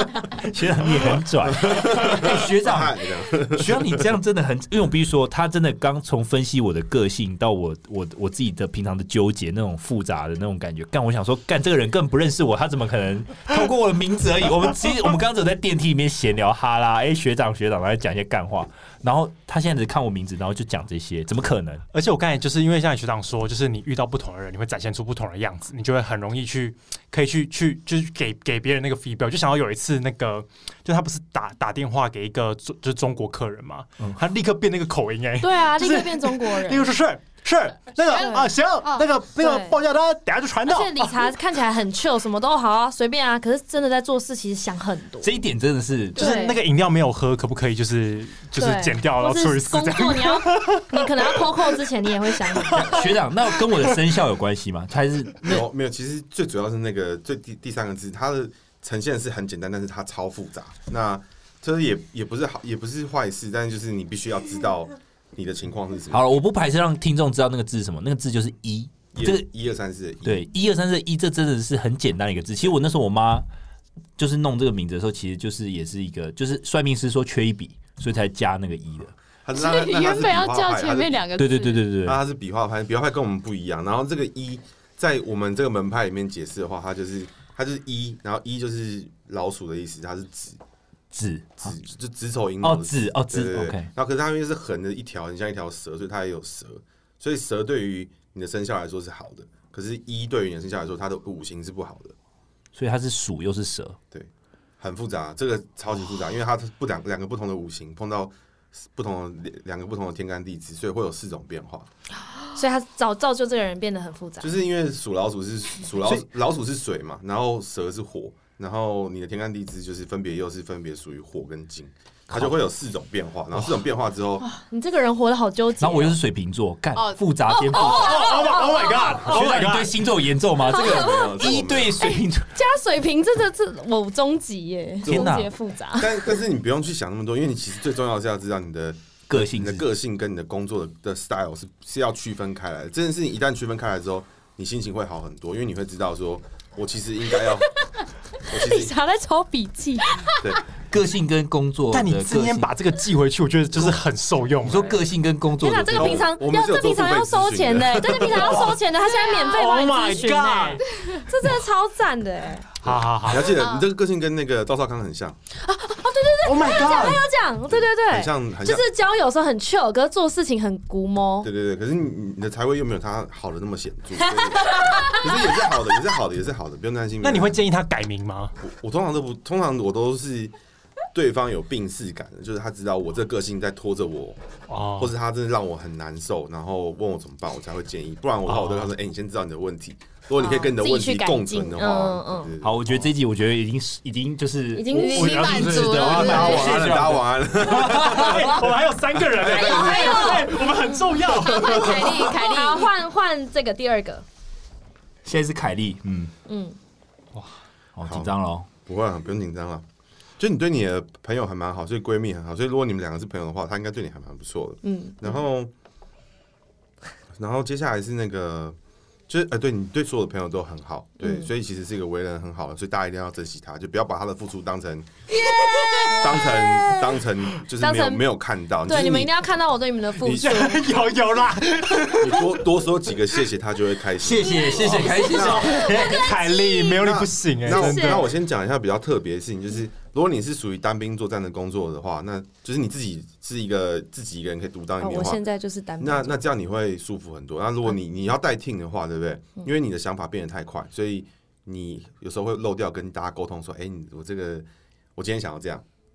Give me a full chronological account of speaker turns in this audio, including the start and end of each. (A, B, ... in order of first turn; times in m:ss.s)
0:00.3-0:21.8 A
0:01.5-0:04.0 B
0:21.9-0:41.2 C
0:35.4-0:36.9 D
0:38.1-0:39.1 E
0:38.1-0:38.5 D
0:39.4-0:39.8 D
0:40.6-0:45.4 D
0:45.2-0:46.4 A
0:46.2-0:46.6 D
0:46.2-0:51.4 C
0:48.6-0:53.1 D
0:52.5-0:53.0 C
0:52.8-0:55.6 A
0:55.4-1:06.3 B
1:06.1-1:09.4 A
1:09.1-1:10.5 B
1:10.2-1:13.4 A
1:14.2-1:19.1 A
1:19.4-1:21.3 B
1:19.5-1:21.8 E
1:21.4-1:22.2 A
1:22.0-1:30.6 B
1:31.1-1:31.7 A
1:31.6-1:42.1 B
1:32.6-1:33.9 A
1:42.7-1:44.0 A
1:44.1-1:51.9 B
1:52.5-1:54.5 D
1:54.4-2:04.4 B
2:04.6-2:06.2 D
2:05.8-2:08.5 A
2:06.9-2:08.5 E
2:07.7-2:09.9 C
2:08.1-2:09.2 D
2:09.1-2:12.5 A
2:10.6-2:12.1 B
2:10.7-2:16.2 D
2:15.0-2:15.3 B
2:15.0-2:15.5 A
2:16.0-2:27.7 B
2:19.3-2:19.8 A
2:28.4-2:28.9 B
2:28.5-2:30.2 D
2:30.4-2:30.6 B
2:30.9-2:32.7 A
2:31.9-2:35.0 C
2:34.6-2:36.3 A
2:35.6-2:42.7 D
2:35.9-2:38.7 B
2:39.2-2:40.8 C
2:42.8-2:43.6 C
2:42.8-2:45.4 B
2:43.5-2:43.9 E
2:45.6-2:51.5 D
2:46.4-2:47.2 C
2:47.7-2:48.8 B
2:51.4-2:57.6 B
2:54.6-2:55.2 D
2:57.2-2:58.5 C
2:58.6-3:00.5 B
3:01.1-3:04.4 B
3:04.7-3:05.1 C
3:05.0-3:13.1 B
3:08.5-3:08.9 C
3:10.4-3:12.5 D
3:12.6-3:18.4 A
3:14.7-3:15.6 D
3:14.9-3:16.9 E
3:15.1-3:16.5 C
3:15.8-3:18.6 B
3:17.8-3:22.1 C
3:19.2-3:20.6 B
3:19.4-3:20.6 D
3:21.4-3:22.9 E
3:21.5-3:22.0 B
3:22.2-3:24.2 D
3:25.2-3:26.3 A
3:26.5-3:26.8 D
3:28.0-3:28.7 A
3:28.0-3:28.3 B
3:28.8-3:29.8 B
3:30.4-3:35.7 B
3:34.8-3:35.3 D
3:37.3-3:38.8 B
3:39.3-3:45.1 B
3:41.2-3:41.5 D
3:45.6-3:46.2 C
3:45.7-3:46.6 D
3:46.0-3:49.3 B
3:47.8-3:48.3 D
3:48.8-3:50.9 D
3:50.2-3:52.6 C
3:52.1-3:55.8 B
3:54.2-3:56.1 A
3:55.3-3:58.2 C
3:55.7-3:57.0 D
3:56.9-4:05.4 B
3:57.6-3:58.3 D
4:05.0-4:06.4 D
4:06.0-4:15.8 B